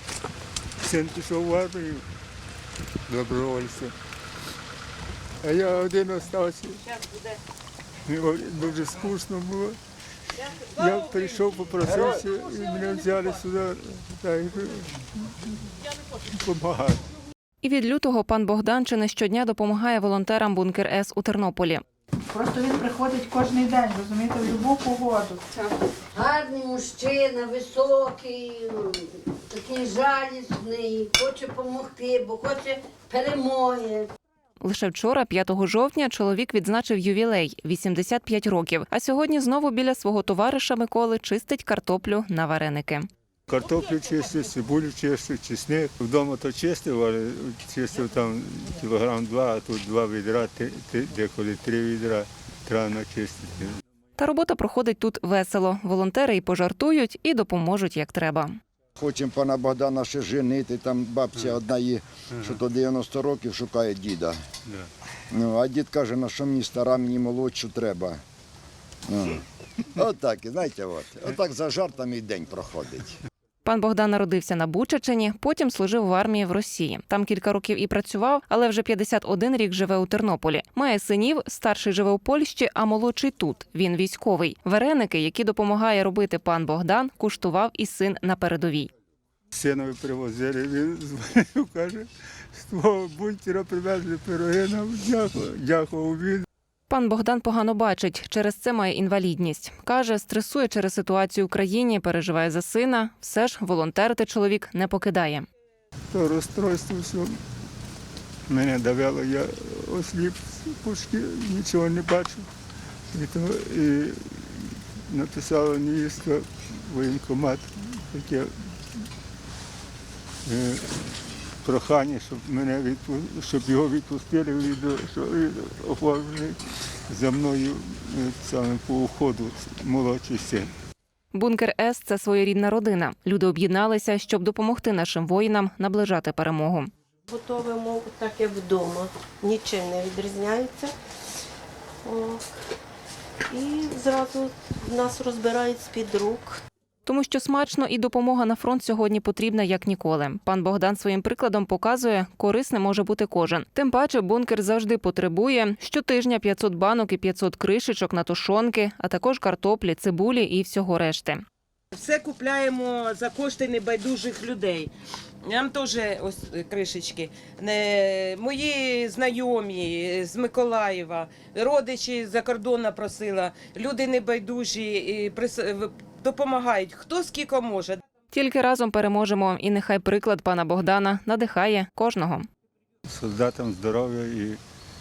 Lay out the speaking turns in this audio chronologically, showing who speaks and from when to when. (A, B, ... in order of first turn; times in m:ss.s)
0:00.8-0:02.1 A
0:03.1-0:03.9 A
0:05.4-0:06.8 A
0:08.0-0:09.8 A
0:10.7-0:14.9 A
0:16.3-0:17.0 A
0:17.6-0:21.8 B
0:22.3-0:25.6 C
0:26.1-0:34.1 D
0:34.6-0:43.1 B
0:43.5-0:53.8 A
0:54.2-0:58.6 B
0:59.0-1:04.4 E
1:05.3-1:08.2 E
1:09.1-1:13.2 E
1:13.6-1:28.9 B
1:29.5-1:36.5 A
1:36.9-1:45.5 B
1:46.1-1:47.4 A
1:48.5-1:52.5 A
1:53.1-1:58.5 A
2:00.5-2:01.0 A
2:01.6-2:10.7 A
2:11.3-2:16.9 B
2:17.3-2:20.9 F
2:22.0-2:22.5 F
2:23.5-2:26.6 F
2:27.1-2:41.4 B
2:41.9-2:58.0 G
2:58.3-3:02.5 B
3:03.1-3:04.6 A